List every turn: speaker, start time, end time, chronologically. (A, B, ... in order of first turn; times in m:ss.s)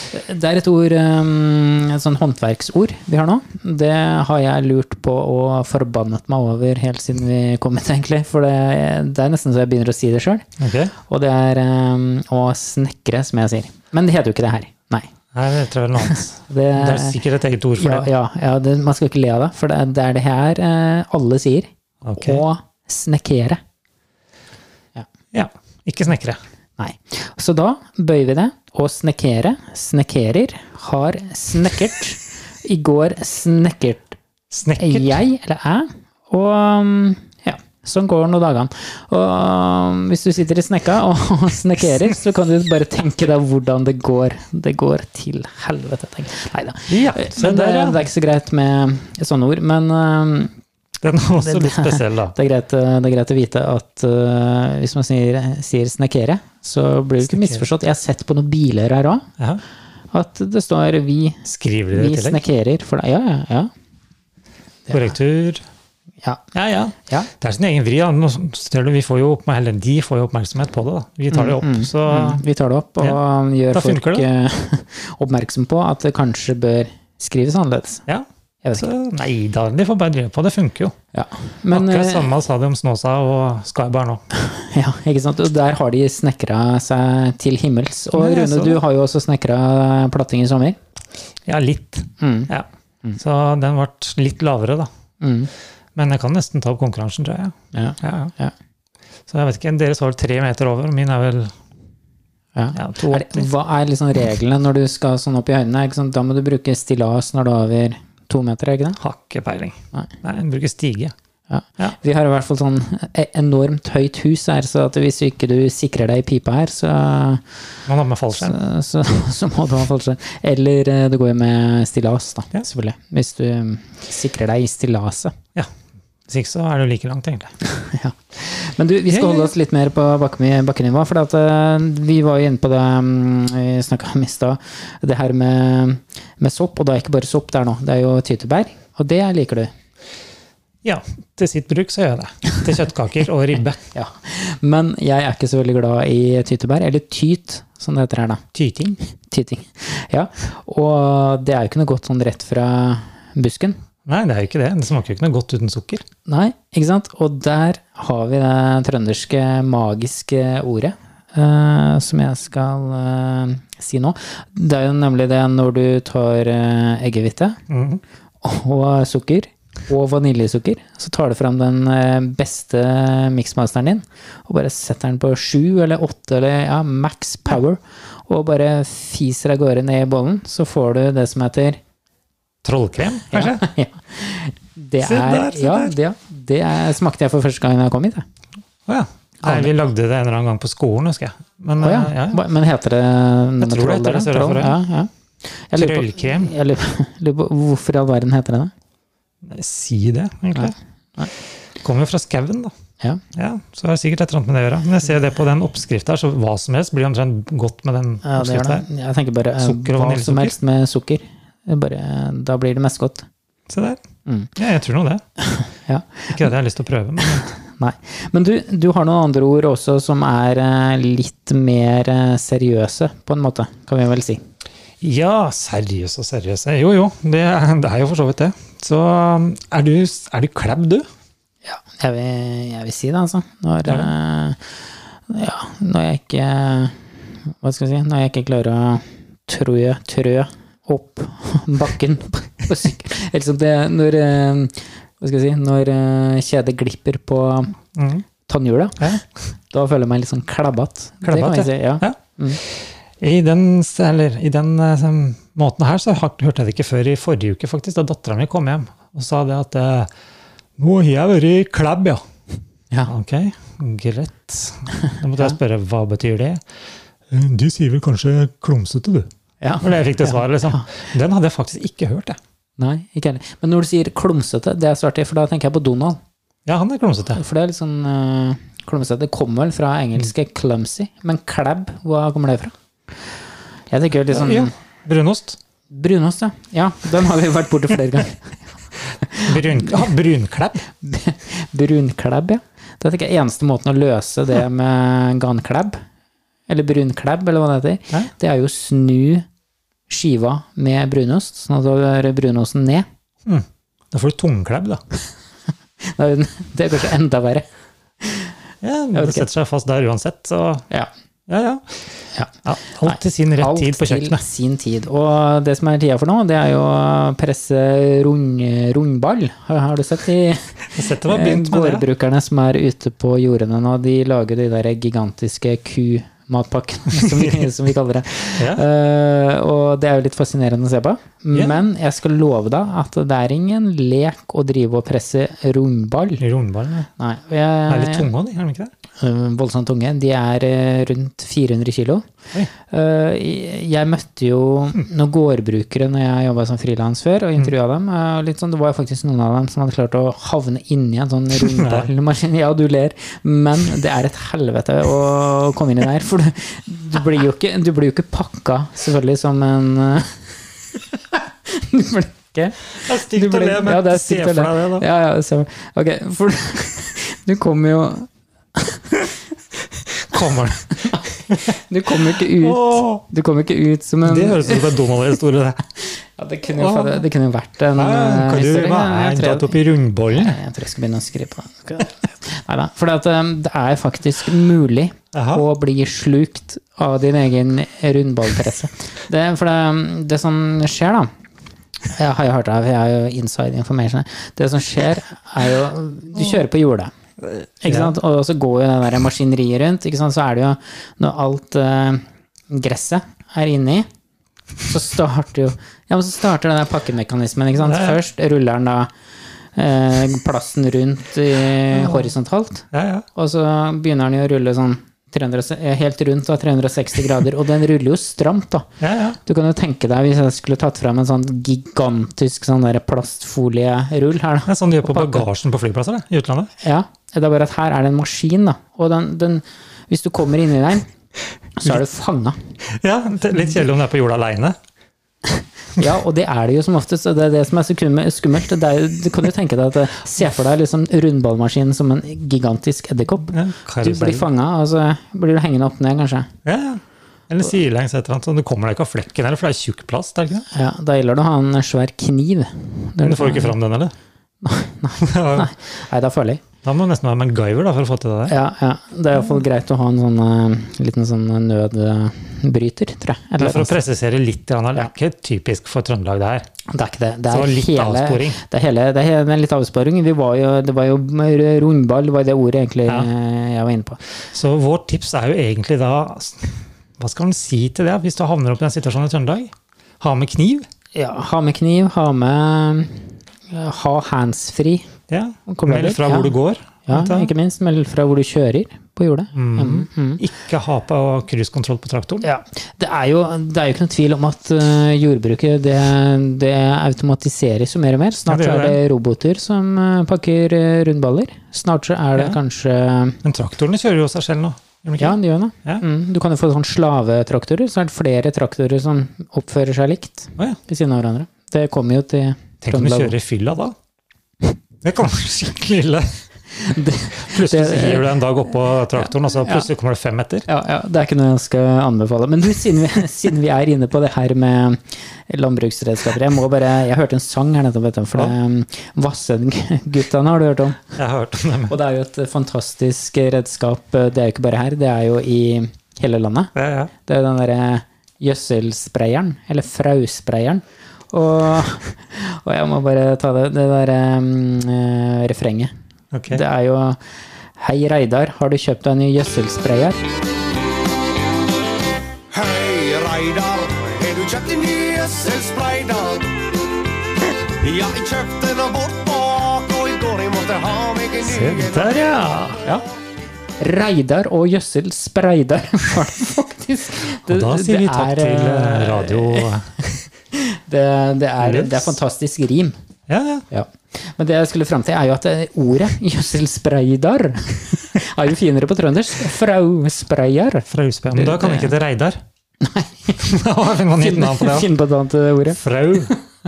0:00.1-0:10.4 A
0:10.6-0:10.9 B
0:11.0-0:15.1 A
0:15.3-0:18.1 B
0:16.0-0:17.2 A
0:17.8-0:23.6 A
0:22.0-0:22.4 B
0:25.3-0:26.4 B
0:26.8-0:34.2 A
0:34.5-0:35.2 B
0:34.8-0:50.5 A
0:46.9-0:48.0 B
0:51.0-0:52.3 B
0:51.4-0:59.3 A
0:57.2-0:57.6 B
1:00.1-1:03.7 A
1:01.4-1:02.4 B
1:04.9-1:05.1 A
1:04.9-1:05.6 B
1:06.5-1:12.4 B
1:11.3-1:18.0 A
1:13.7-1:14.3 B
1:18.6-1:18.9 A
1:18.8-1:20.9 B
1:21.1-1:22.3 A
1:21.7-1:24.2 B
1:24.3-1:30.8 A
1:28.1-1:28.8 B
1:31.4-1:34.9 B
1:32.2-1:32.5 A
1:35.2-1:35.5 A
1:35.9-1:38.3 B
1:37.7-1:38.5 A
1:39.3-1:41.5 B
1:42.5-1:49.0 A
1:42.7-1:43.5 B
1:49.0-1:51.1 B
1:51.5-1:57.4 A
1:57.9-1:58.6 B
1:58.4-2:05.4 A
2:06.3-2:07.5 B
2:07.6-2:19.7 A
2:09.1-2:09.5 B
2:20.8-2:23.8 B
2:23.9-2:28.4 A
2:28.5-2:29.0 B
2:29.3-2:33.8 A
2:34.0-2:36.0 B
2:36.3-2:47.6 A
2:47.7-2:48.0 B
2:48.4-3:01.8 A
3:02.6-3:03.6 B
3:03.3-3:08.2 A
3:05.0-3:05.9 B
3:08.9-3:12.4 B
3:09.4-3:09.7 A
3:11.8-3:18.7 A
3:13.6-3:14.8 B
3:15.7-3:16.5 B
3:19.4-3:20.7 B
3:20.5-3:21.3 A
3:21.8-3:22.7 B
3:23.3-3:28.8 B
3:28.2-3:33.3 A
3:29.6-3:30.6 B
3:33.7-3:34.0 B
3:34.2-3:34.5 A
3:34.6-3:35.2 B
3:35.4-3:36.5 A
3:36.3-3:37.5 B
3:37.2-3:44.4 A
3:45.0-3:51.0 B
3:51.6-3:54.6 A
3:55.3-4:07.8 A
4:08.0-4:08.2 B
4:08.4-4:12.6 A
4:11.2-4:20.1 B
4:20.8-4:22.2 B
4:23.1-4:26.6 B
4:27.3-4:29.3 B
4:29.6-4:30.9 A
4:29.8-4:32.4 B
4:32.8-4:36.2 A
4:36.6-4:37.4 B
4:37.3-4:42.7 A
4:43.9-4:44.7 A
4:44.3-4:45.6 B
4:45.9-4:50.1 A
4:49.4-4:50.8 B
4:50.9-4:56.0 A
4:56.7-4:59.4 A
5:00.1-5:03.1 A
5:03.4-5:05.0 B
5:06.0-5:07.6 A
5:08.2-5:08.5 A
5:08.8-5:10.8 B
5:09.1-5:09.5 A
5:11.5-5:11.9 B
5:12.6-5:14.4 B
5:13.0-5:36.4 A
5:20.9-5:22.1 B
5:27.1-5:27.7 B
5:28.6-5:28.8 B
5:31.5-5:31.8 B
5:36.4-5:37.1 B
5:37.2-5:38.3 A
5:37.9-5:38.9 B
5:39.2-5:42.3 A
5:42.9-6:00.4 A
5:51.6-5:52.1 B
6:01.7-6:09.3 A
6:03.0-6:05.0 B
6:10.2-6:11.8 B
6:10.9-6:15.0 A
6:12.3-6:13.2 B
6:14.2-6:15.8 B
6:16.0-6:31.3 A
6:16.8-6:17.2 B
6:18.0-6:20.6 B
6:25.3-6:25.6 B
6:32.1-6:44.1 A
6:37.9-6:38.1 B
6:44.9-6:49.1 A
6:47.8-6:48.2 B
6:49.7-6:58.9 A
6:51.9-6:52.3 B
6:52.9-6:53.2 B
6:59.0-6:59.4 B
6:59.4-7:05.5 A
7:04.7-7:06.7 B
7:06.8-7:11.1 A
7:11.8-7:12.6 A
7:12.9-7:14.8 B
7:15.9-7:26.5 A
7:23.5-7:24.5 B
7:26.6-7:30.7 B
7:30.7-7:33.7 A
7:33.2-7:34.1 B
7:34.6-7:36.6 A
7:35.2-7:35.7 B
7:36.8-7:38.6 B
7:38.5-7:44.0 A
7:43.6-7:46.7 B
7:46.9-7:54.2 A
7:47.5-7:48.6 B
7:54.5-8:00.9 B
8:01.1-8:05.1 A
8:05.3-8:07.5 B
8:05.7-8:06.5 A
8:07.1-8:10.4 A
8:09.5-8:12.5 B
8:12.4-8:23.4 A
8:18.5-8:19.0 B
8:23.4-8:26.0 B
8:25.2-8:33.3 A
8:32.8-8:34.0 B
8:35.0-8:36.4 B
8:36.8-8:38.4 A
8:37.4-8:40.7 B
8:39.2-8:39.9 A
8:40.7-8:51.2 A
8:51.2-8:52.0 B
8:51.9-8:56.7 A
8:56.7-8:57.1 B
8:57.2-9:05.9 A
9:06.3-9:06.6 B
9:06.5-9:07.2 A
9:07.8-9:10.2 A
9:12.5-9:16.6 C
9:17.7-9:22.2 C
9:21.4-9:22.9 B
9:23.8-9:33.0 A
9:27.4-9:29.9 B
9:31.6-9:32.1 B
9:33.3-9:33.6 B
9:33.7-9:41.9 A
9:40.9-9:42.4 B
9:42.8-9:43.4 A
9:43.4-9:44.9 B
9:44.1-9:46.4 A
9:45.7-9:46.3 B